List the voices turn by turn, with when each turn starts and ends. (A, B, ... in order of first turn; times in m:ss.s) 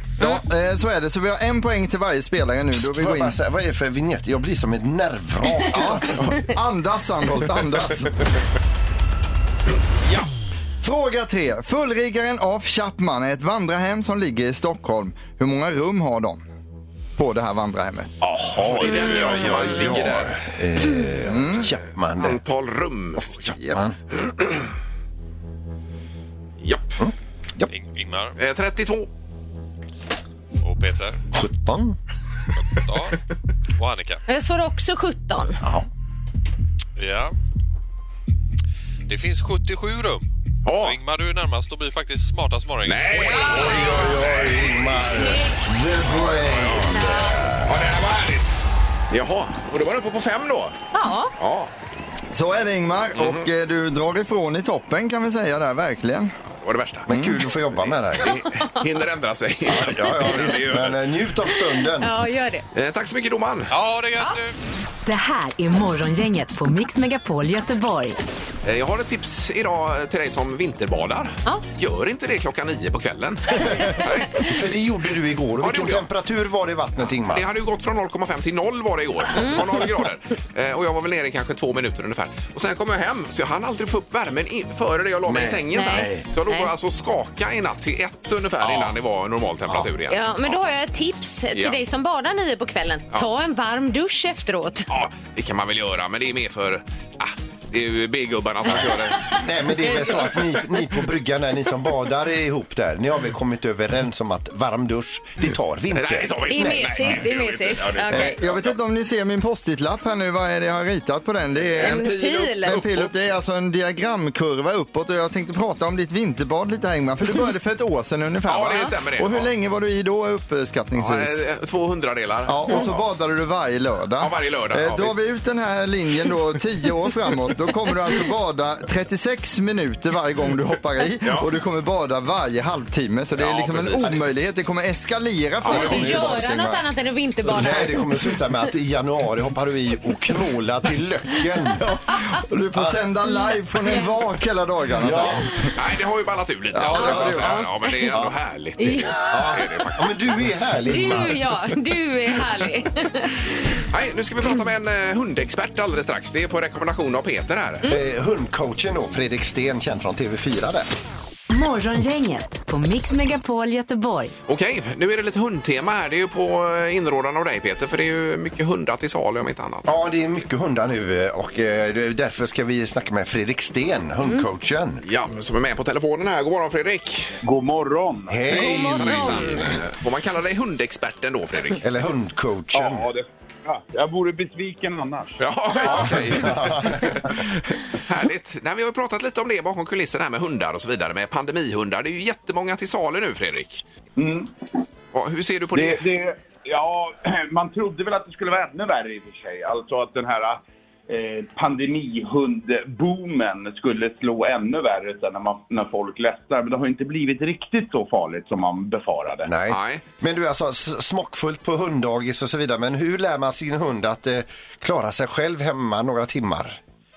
0:00.2-0:03.4 A
0:02.8-0:06.2 B
0:05.7-0:08.1 A
0:10.8-0:16.4 A
0:17.2-0:18.1 A
0:18.2-0:22.4 B
0:18.6-0:20.4 C
0:21.2-0:21.7 A
0:22.2-0:23.4 C
0:23.2-0:24.0 B
0:24.2-0:24.6 C
0:26.6-0:27.0 C
0:27.0-0:27.7 B
0:27.7-0:28.4 D
0:28.4-0:29.1 C
0:30.6-0:31.2 D
0:31.3-0:32.0 B
0:32.6-0:33.2 D
0:33.8-0:34.2 D
0:34.3-0:35.6 E
0:35.6-0:35.9 B
0:37.0-0:37.3 D
0:39.1-0:43.5 D
0:40.6-0:41.0 C
0:42.8-0:45.2 C
0:43.2-0:44.1 E
0:43.4-0:47.8 B
0:45.0-0:45.8 E
0:46.5-0:46.9 C
0:46.9-0:47.4 E
0:47.6-0:48.6 C
0:49.1-0:50.8 C
0:50.9-0:51.3 E
0:51.4-0:51.7 C
0:52.3-0:56.3 A
0:53.2-0:53.5 C
0:56.6-0:57.1 C
0:57.1-0:58.4 B
0:57.1-0:57.4 A
0:58.1-1:01.0 C
0:58.2-0:58.8 E
0:59.6-1:02.1 B
1:02.0-1:02.6 E
1:02.7-1:03.7 C
1:03.7-1:04.5 D
1:05.0-1:08.2 F
1:08.6-1:14.5 C
1:13.6-1:17.5 B
1:15.6-1:16.1 C
1:17.2-1:30.6 C
1:19.3-1:19.6 E
1:25.2-1:26.2 B
1:25.7-1:26.7 E
1:28.6-1:28.9 B
1:30.1-1:34.9 E
1:34.9-1:39.3 C
1:38.7-1:47.2 B
1:45.9-1:48.7 C
1:46.5-1:48.4 E
1:48.1-2:01.4 A
1:51.8-1:53.3 C
1:51.8-1:52.8 E
1:58.5-1:59.5 C
2:01.0-2:03.0 C
2:02.4-2:16.8 A
2:04.2-2:05.2 C
2:13.4-2:14.2 C
2:15.6-2:16.2 C
2:15.6-2:16.4 B
2:15.7-2:18.4 E
2:17.5-2:21.8 B
2:22.1-2:25.7 A
2:22.7-2:23.0 B
2:25.0-2:25.4 B
2:25.7-2:30.2 C
2:26.7-2:27.7 A
2:27.0-2:28.3 B
2:27.1-2:28.1 E
2:28.8-2:29.4 E
2:29.2-2:31.5 B
2:30.9-2:33.4 E
2:33.9-2:37.9 C
2:37.8-2:40.9 B
2:41.5-2:44.3 F
2:44.5-2:49.9 C
2:49.8-2:55.0 B
2:55.0-2:57.3 C
2:57.4-2:58.5 G
2:58.3-2:59.8 B
2:58.5-2:59.7 E
2:58.5-3:01.8 C
3:01.8-3:03.0 B
3:02.7-3:05.4 G
3:05.4-3:13.8 C
3:05.8-3:07.4 B
3:14.2-3:14.5 G
3:15.1-3:16.0 C
3:15.7-3:29.5 G
3:29.4-3:36.8 B
3:29.7-3:30.0 C